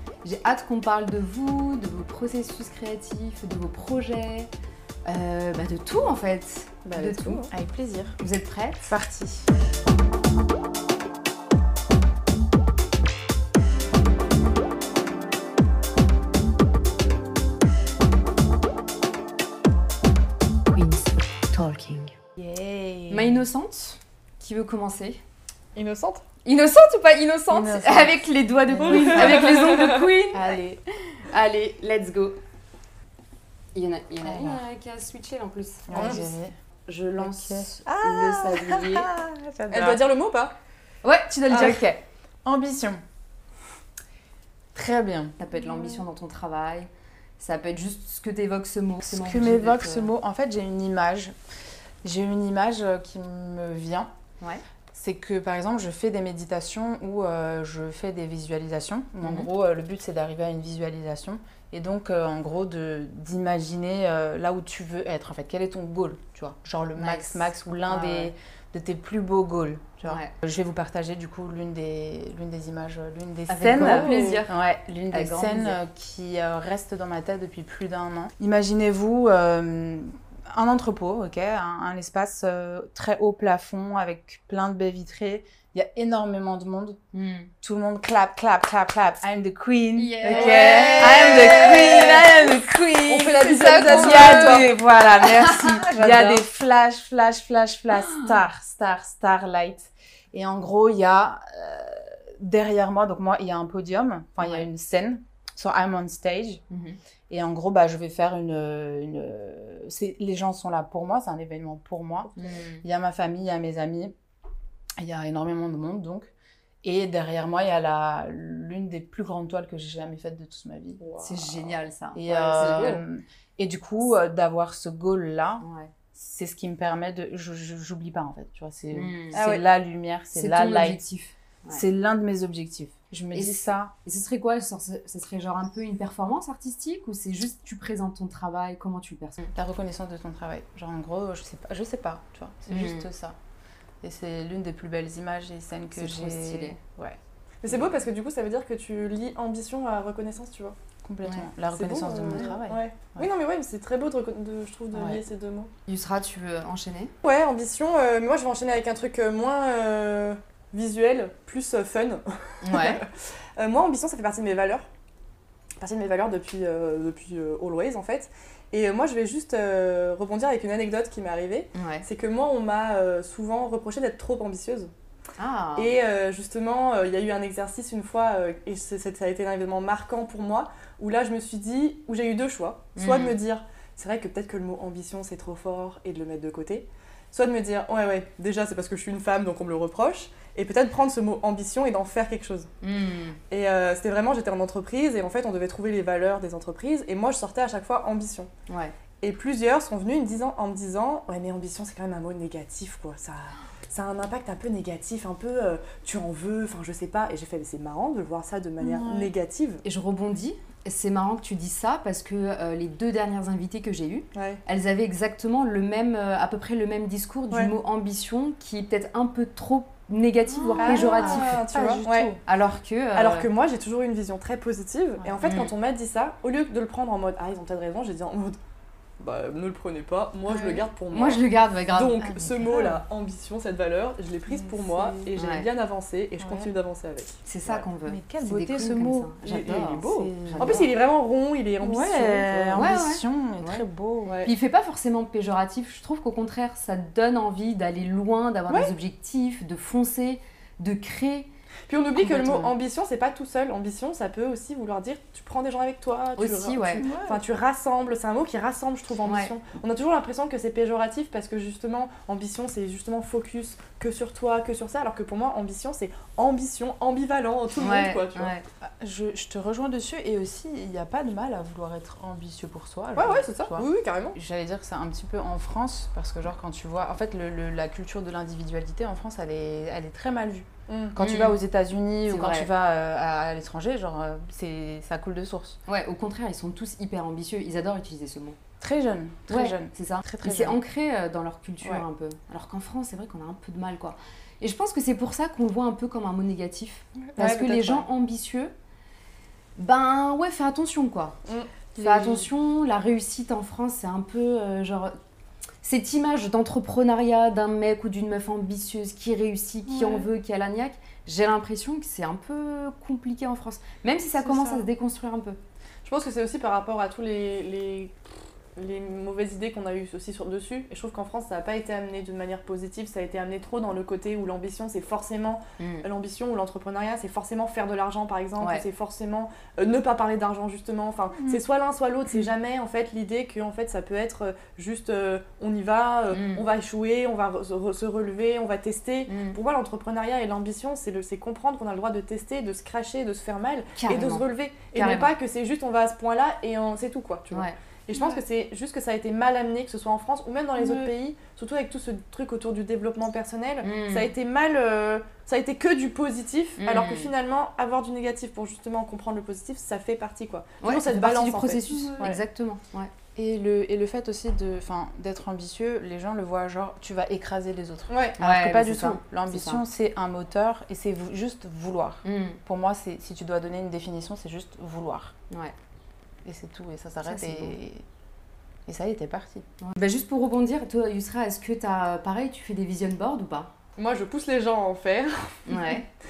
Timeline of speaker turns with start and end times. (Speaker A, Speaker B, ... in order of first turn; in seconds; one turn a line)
Speaker A: 0.2-4.5
Speaker A: 5.0-7.5
Speaker B: 6.8-7.5
Speaker C: 7.5-8.2
Speaker A: 8.2-8.9
Speaker C: 8.8-9.5
Speaker A: 20.7-22.1
Speaker C: 22.4-23.4
Speaker A: 23.1-25.2
Speaker B: 25.7-26.2
Speaker A: 26.4-32.4
Speaker C: 27.5-30.8
Speaker B: 28.8-29.9
Speaker A: 33.7-36.3
Speaker C: 34.2-34.6
Speaker C: 35.9-36.5
Speaker B: 35.9-36.2
Speaker A: 36.9-39.1
Speaker C: 37.2-40.0
Speaker B: 39.7-40.5
Speaker A: 41.0-41.8
Speaker C: 41.5-43.0
Speaker B: 41.5-41.8
Speaker C: 44.7-46.0
Speaker A: 45.4-50.1
Speaker C: 49.0-51.3
Speaker C: 52.0-54.1
Speaker C: 54.9-87.0
Speaker A: 59.2-59.5
Speaker A: 67.0-68.3
Speaker A: 70.0-70.3
Speaker A: 73.5-74.5
Speaker B: 73.7-74.4
Speaker A: 75.1-75.8
Speaker A: 87.1-87.5
Speaker C: 87.6-106.6
Speaker A: 90.0-92.4
Speaker B: 90.2-92.2
Speaker B: 93.1-94.7
Speaker A: 93.4-96.4
Speaker A: 104.4-104.7
Speaker A: 106.7-107.0
Speaker C: 107.3-112.3
Speaker A: 112.3-112.8
Speaker C: 112.8-114.1
Speaker C: 115.0-116.3
Speaker C: 116.8-121.0
Speaker B: 121.0-121.5
Speaker A: 121.2-123.0
Speaker C: 122.1-131.0
Speaker B: 122.6-123.0
Speaker A: 125.6-125.9
Speaker A: 128.9-129.4
Speaker B: 129.3-129.6
Speaker A: 130.3-131.8
Speaker C: 131.7-133.9
Speaker A: 133.3-139.5
Speaker C: 139.5-143.3
Speaker A: 142.7-143.1
Speaker C: 144.0-147.2
Speaker A: 145.9-146.8
Speaker B: 147.6-150.8
Speaker C: 151.0-153.3
Speaker B: 151.7-155.7
Speaker A: 155.8-157.1
Speaker B: 157.2-164.9
Speaker A: 162.6-163.0
Speaker B: 165.8-174.9
Speaker A: 171.7-172.0
Speaker A: 175.4-175.9
Speaker B: 175.8-192.7
Speaker A: 182.9-183.3
Speaker A: 192.8-193.4
Speaker B: 193.5-198.5
Speaker A: 198.7-198.9
Speaker B: 199.2-209.8
Speaker C: 208.8-209.3
Speaker A: 209.8-221.6
Speaker B: 214.3-214.6
Speaker C: 220.5-222.4
Speaker B: 220.8-222.3
Speaker A: 222.4-223.5
Speaker B: 223.1-228.6
Speaker C: 225.2-225.5
Speaker A: 225.4-225.7
Speaker B: 229.2-237.8
Speaker C: 230.5-230.8
Speaker A: 231.1-232.3
Speaker C: 232.2-233.0
Speaker C: 234.5-235.3
Speaker A: 235.3-235.7
Speaker C: 236.4-236.7
Speaker A: 237.4-240.9
Speaker C: 238.1-239.3
Speaker B: 239.4-242.9
Speaker C: 240.0-240.9
Speaker C: 241.8-244.4
Speaker A: 242.7-243.8
Speaker B: 244.3-244.5
Speaker A: 244.4-251.5
Speaker B: 248.7-248.9
Speaker B: 251.9-268.5
Speaker C: 252.2-252.7
Speaker A: 256.4-257.0
Speaker C: 256.9-257.4
Speaker A: 259.2-259.5
Speaker A: 267.8-268.6
Speaker C: 268.8-285.8
Speaker B: 273.1-274.4
Speaker B: 280.9-281.1
Speaker A: 281.2-281.6
Speaker A: 282.3-282.7
Speaker A: 285.9-288.6
Speaker C: 288.8-290.8
Speaker A: 289.5-298.7
Speaker B: 297.4-298.1
Speaker A: 299.8-301.4
Speaker B: 301.4-302.4
Speaker A: 302.0-305.2
Speaker A: 305.8-315.6
Speaker B: 314.4-314.9
Speaker B: 316.0-318.1
Speaker B: 318.8-362.4
Speaker A: 325.8-326.0
Speaker A: 336.3-336.6
Speaker A: 339.3-339.6
Speaker A: 344.0-345.3
Speaker C: 350.8-351.1
Speaker A: 353.8-354.3
Speaker A: 356.8-357.3
Speaker A: 360.8-363.1
Speaker C: 361.9-362.3
Speaker C: 363.4-375.3
Speaker B: 368.1-368.4
Speaker A: 368.4-369.8
Speaker A: 372.2-372.6
Speaker C: 376.4-378.0
Speaker A: 377.2-377.7
Speaker C: 378.9-379.6
Speaker A: 379.8-383.7
Speaker B: 384.0-386.0
Speaker A: 385.7-386.1